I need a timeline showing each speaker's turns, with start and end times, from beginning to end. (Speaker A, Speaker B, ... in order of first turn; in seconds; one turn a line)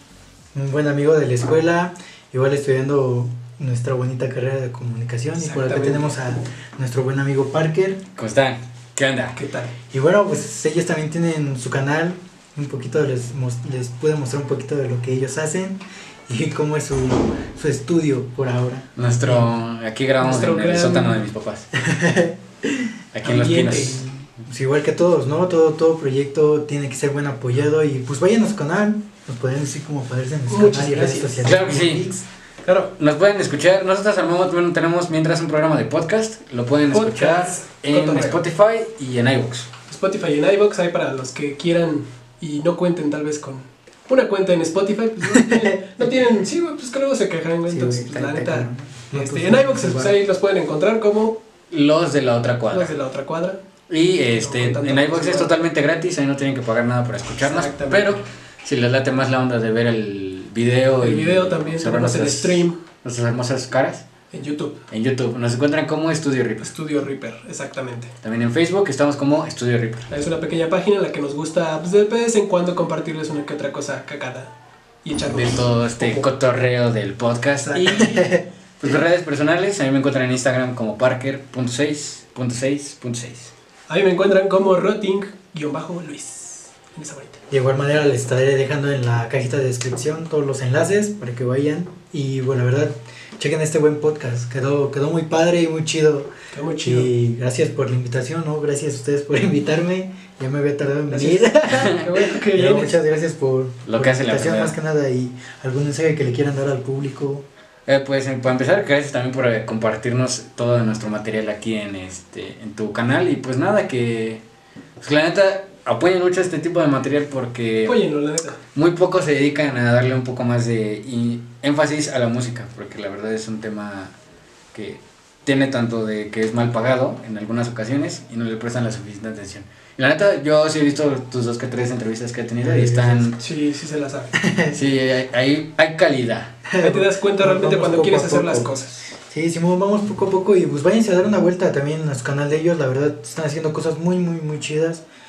Speaker A: 0.5-8.0
Speaker B: 5.3-6.2
Speaker C: 8.2-9.4
Speaker B: 9.3-9.8
Speaker A: 9.9-18.9
Speaker C: 19.0-21.7
Speaker B: 20.2-21.2
Speaker A: 21.8-22.9
Speaker C: 23.1-24.1
Speaker B: 23.2-24.2
Speaker A: 24.4-32.3
Speaker B: 30.5-31.5
Speaker C: 31.4-32.1
Speaker B: 32.6-32.9
Speaker C: 33.0-39.7
Speaker B: 36.9-38.5
Speaker B: 39.9-51.4
Speaker A: 45.5-46.1
Speaker A: 47.7-50.2
Speaker C: 51.7-53.0
Speaker B: 52.7-53.6
Speaker C: 53.9-64.1
Speaker B: 54.3-55.5
Speaker B: 57.4-58.2
Speaker B: 61.0-62.8
Speaker B: 64.3-64.8
Speaker C: 64.9-66.7
Speaker B: 66.6-68.1
Speaker C: 68.2-70.1
Speaker B: 70.1-74.5
Speaker B: 75.0-76.3
Speaker C: 75.2-78.1
Speaker B: 77.6-78.3
Speaker A: 78.0-78.5
Speaker C: 78.8-83.5
Speaker B: 83.9-87.4
Speaker A: 87.5-96.3
Speaker B: 96.5-97.1
Speaker A: 96.8-107.5
Speaker B: 101.1-103.0
Speaker C: 101.7-102.2
Speaker C: 103.9-104.8
Speaker C: 107.9-114.4
Speaker C: 115.0-118.0
Speaker B: 117.8-118.6
Speaker C: 118.7-124.1
Speaker C: 124.7-133.4
Speaker A: 132.6-133.3
Speaker B: 133.4-134.4
Speaker A: 134.4-134.8
Speaker C: 134.7-136.6
Speaker A: 136.7-138.7
Speaker B: 136.8-139.0
Speaker A: 139.3-145.0